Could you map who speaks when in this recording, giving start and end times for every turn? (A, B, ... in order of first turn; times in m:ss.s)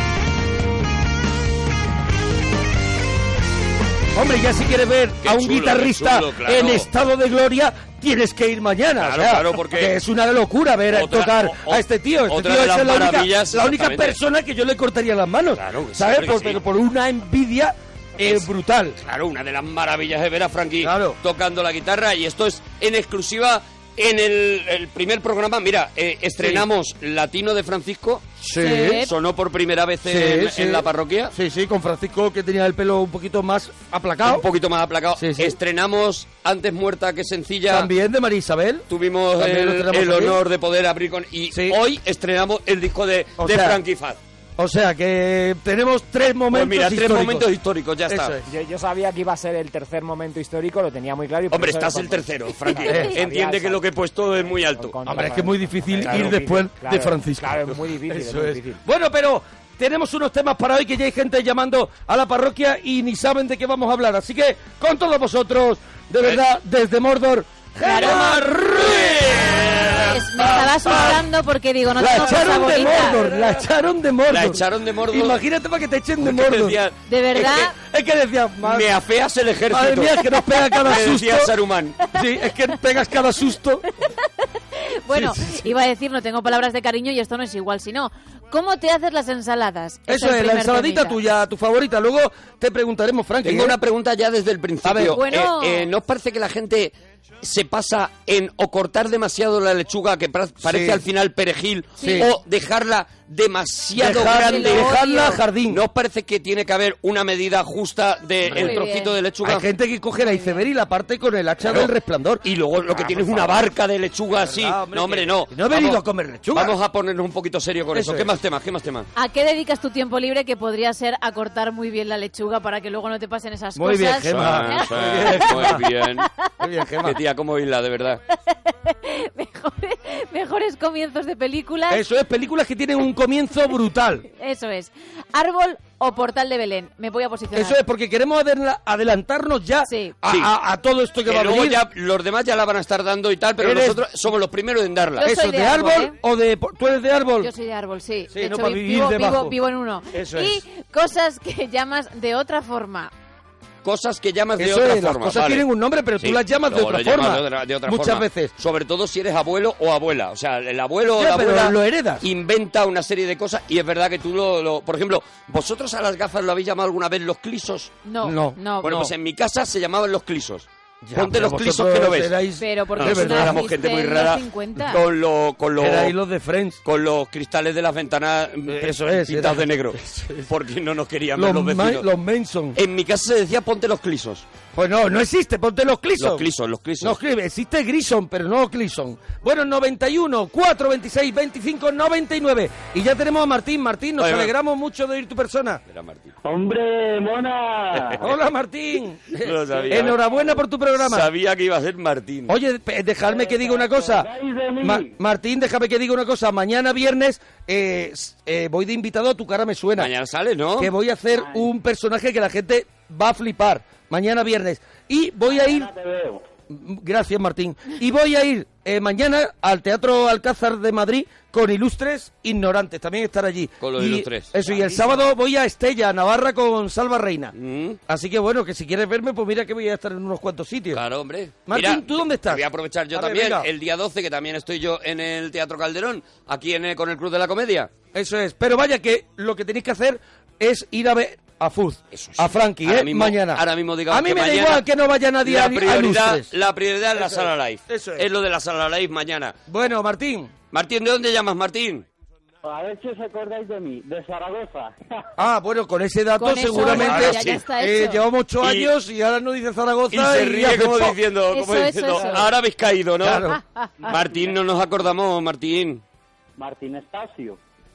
0:04.1-0:19.0 A
0:05.2-0:06.9 B
0:09.0-0:09.9 B
0:10.9-0:14.2 B
0:15.5-0:16.6 B
0:18.2-0:18.4 B
0:19.0-0:28.4 B
0:20.8-0:21.2 A
0:26.4-0:26.6 A
0:28.4-0:29.0 A
0:28.6-0:29.1 C
0:29.0-0:31.3 B
0:30.0-0:34.4 A
0:34.2-0:37.9 B
0:35.2-0:35.5 A
0:37.7-0:38.8 A
0:38.9-0:44.2 B
0:39.4-0:40.4 A
0:41.5-0:41.8 A
0:43.4-0:43.8 A
0:44.6-0:47.5 A
0:46.5-0:48.3 B
0:48.1-0:48.4 A
0:48.5-0:58.8 D
0:51.5-0:55.0 B
0:55.1-1:11.2 A
0:56.0-0:56.3 B
1:07.8-1:08.4 C
1:08.0-1:10.2 B
1:10.1-1:13.2 C
1:12.0-1:16.8 A
1:12.2-1:13.6 B
1:14.3-1:15.4 B
1:16.2-1:16.9 B
1:17.1-1:17.7 C
1:17.4-1:18.9 A
1:18.6-1:20.2 B
1:19.7-1:21.5 A
1:20.8-1:22.0 B
1:22.1-1:23.8 A
1:24.0-1:31.2 C
1:25.1-1:25.7 A
1:30.1-1:33.8 A
1:33.4-1:49.7 B
1:34.8-1:35.2 A
1:35.1-1:35.9 C
1:40.6-1:41.0 A
1:42.0-1:42.3 C
1:42.0-1:42.3 A
1:43.9-1:45.8 A
1:44.2-1:45.4 C
1:48.4-1:48.8 A
1:48.5-1:49.1 C
1:49.4-1:53.6 A
1:50.2-1:50.6 C
1:51.6-1:51.9 B
1:52.4-1:59.1 B
1:54.3-1:56.7 A
1:57.9-1:58.3 A
1:59.1-2:06.5 C
2:03.8-2:05.8 A
2:04.3-2:06.3 B
2:06.6-2:07.2 A
2:07.0-2:08.2 B
2:08.3-2:12.0 C
2:11.9-2:14.2 A
2:14.2-2:17.8 C
2:17.5-2:21.8 A
2:19.8-2:20.1 C
2:20.2-2:20.5 B
2:21.2-2:25.2 B
2:23.6-2:24.0 A
2:25.2-2:26.2 C
2:25.2-2:27.5 A
2:27.4-2:33.1 C
2:28.3-2:29.5 A
2:30.1-2:30.6 A
2:33.8-2:35.6 B
2:34.6-2:38.5 A
2:36.2-2:47.9 B
2:41.1-2:42.2 A
2:48.0-2:49.0 C
2:48.2-2:49.1 A
2:48.8-2:52.3 B
2:51.0-2:53.6 A
2:52.6-2:55.0 C
2:53.0-2:56.1 B
2:55.8-2:56.8 A
2:56.8-3:02.0 B
2:58.6-3:00.5 A
3:01.3-3:02.8 A
3:02.7-3:04.5 B
3:04.8-3:06.5 A
3:06.2-3:07.2 B
3:07.0-3:15.8 A
3:14.2-3:14.5 B
3:15.9-3:16.3 B
3:16.4-3:18.2 E
3:17.9-3:18.2 B
3:18.2-3:21.3 A
3:19.4-3:20.2 B
3:20.0-3:20.5 E
3:21.0-3:22.5 B
3:22.5-3:24.3 A
3:23.2-3:25.1 E
3:24.8-3:30.1 A
3:30.0-3:30.9 B
3:30.8-3:35.9 A
3:31.3-3:31.7 E
3:35.5-3:36.4 E
3:36.7-3:47.5 A
3:43.8-3:45.0 B
3:44.7-3:45.1 E
3:47.5-3:48.0 B
3:48.1-3:51.0 A
3:50.9-3:57.9 B
3:51.7-3:53.7 A
3:58.1-4:06.5 A
4:02.1-4:04.8 B
4:05.4-4:09.6 B
4:07.1-4:08.2 A
4:09.7-4:10.5 A
4:10.7-4:12.0 B
4:12.6-4:15.1 E
4:15.4-4:21.2 A
4:16.4-4:18.2 C
4:16.7-4:17.6 B
4:18.6-4:18.9 B
4:20.1-4:23.5 B
4:21.5-4:22.4 C
4:23.2-4:23.6 A
4:23.5-4:24.0 C
4:24.0-4:26.0 B
4:24.1-4:24.4 E
4:26.6-4:27.6 E